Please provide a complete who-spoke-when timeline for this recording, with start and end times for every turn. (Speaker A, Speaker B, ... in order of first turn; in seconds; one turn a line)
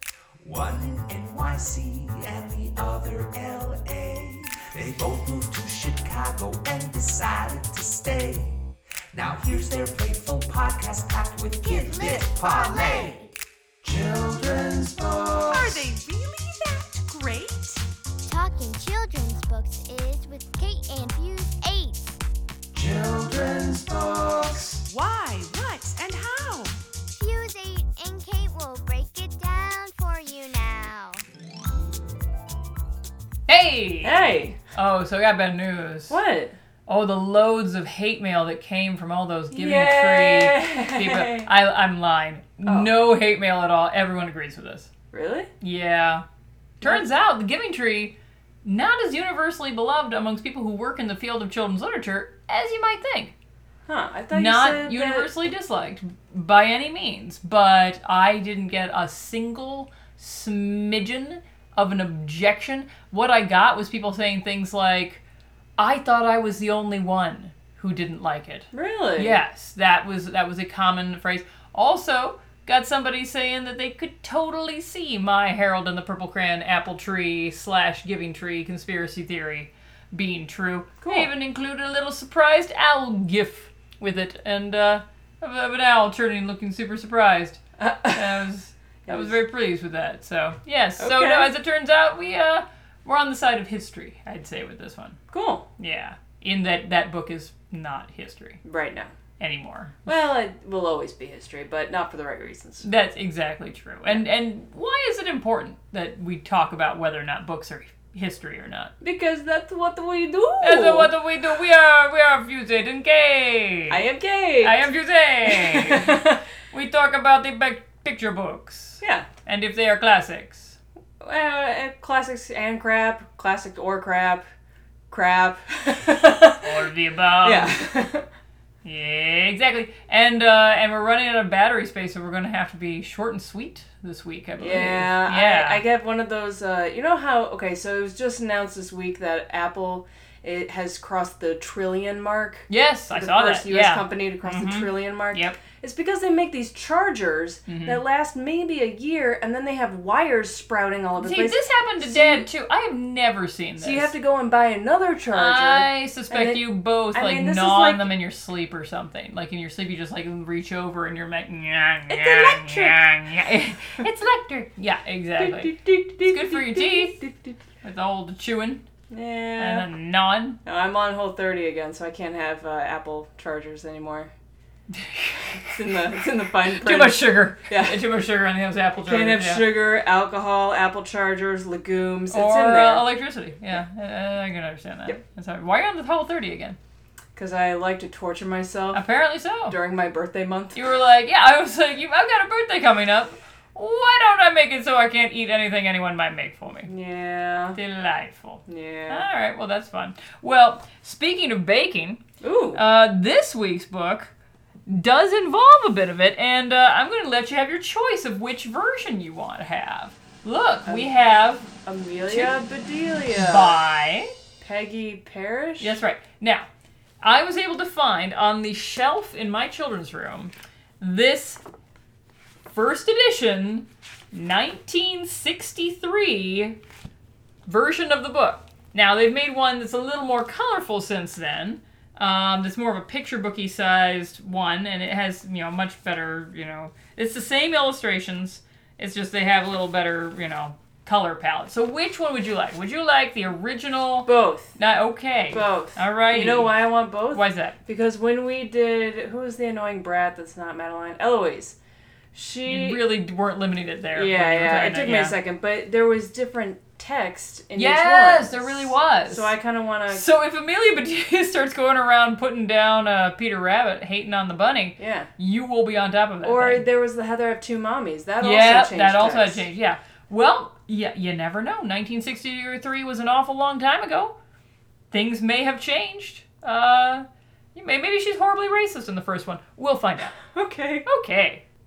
Speaker A: 0.4-13.3
Speaker B: 11.6-13.3
Speaker A: 13.8-15.9
Speaker C: 15.5-17.8
Speaker B: 18.2-22.2
Speaker A: 22.7-24.9
Speaker C: 24.9-26.8
Speaker B: 27.1-31.2
Speaker D: 33.5-36.2
Speaker E: 34.0-34.6
Speaker E: 36.1-36.6
Speaker D: 36.9-44.9
Speaker E: 39.5-41.5
Speaker E: 45.1-45.5
Speaker D: 45.6-46.2
Speaker D: 46.8-53.3
Speaker E: 53.9-55.3
Speaker D: 54.3-65.2
Speaker D: 65.8-95.2
Speaker E: 68.7-69.4
Speaker E: 81.0-81.3
Speaker E: 87.8-88.4
Speaker E: 89.0-89.3
Speaker E: 91.0-91.5
Speaker E: 95.3-95.7
Speaker D: 95.8-98.6
Speaker E: 98.6-99.1
Speaker D: 99.4-100.0
Speaker E: 100.0-102.9
Speaker D: 102.8-108.9
Speaker E: 109.0-111.1
Speaker D: 110.6-114.0
Speaker E: 113.9-114.8
Speaker D: 114.6-120.8
Speaker E: 115.4-116.4
Speaker E: 119.0-119.3
Speaker E: 121.2-124.5
Speaker E: 125.1-126.8
Speaker D: 126.6-127.8
Speaker E: 127.4-128.3
Speaker D: 128.8-135.8
Speaker E: 134.6-152.5
Speaker D: 142.7-145.6
Speaker D: 147.7-148.0
Speaker D: 151.2-154.1
Speaker E: 153.8-158.1
Speaker D: 155.3-167.2
Speaker E: 162.1-163.1
Speaker E: 165.4-167.6
Speaker D: 167.8-168.8
Speaker E: 169.1-169.9
Speaker D: 169.6-170.6
Speaker E: 170.6-174.3
Speaker D: 174.9-175.7
Speaker E: 175.6-178.0
Speaker D: 176.6-179.7
Speaker E: 179.0-183.0
Speaker D: 182.3-186.8
Speaker E: 187.3-189.0
Speaker D: 188.9-189.8
Speaker E: 189.7-190.8
Speaker D: 190.7-196.9
Speaker E: 196.9-197.8
Speaker D: 197.8-202.2
Speaker E: 198.7-199.3
Speaker E: 202.4-202.8
Speaker D: 202.7-204.3
Speaker D: 204.9-212.5
Speaker E: 210.8-211.1
Speaker E: 211.8-213.8
Speaker D: 213.3-214.3
Speaker E: 214.6-216.0
Speaker D: 215.8-216.7
Speaker D: 217.2-221.6
Speaker D: 222.7-226.8
Speaker D: 227.7-247.8
Speaker E: 244.2-244.7
Speaker E: 245.5-251.8
Speaker E: 252.3-253.0
Speaker D: 252.7-255.3
Speaker E: 254.1-260.2
Speaker D: 257.8-259.5
Speaker D: 260.1-266.8
Speaker E: 265.0-265.3
Speaker E: 266.4-269.6
Speaker D: 268.4-274.4
Speaker D: 275.1-280.4
Speaker E: 280.5-281.1
Speaker D: 281.1-281.6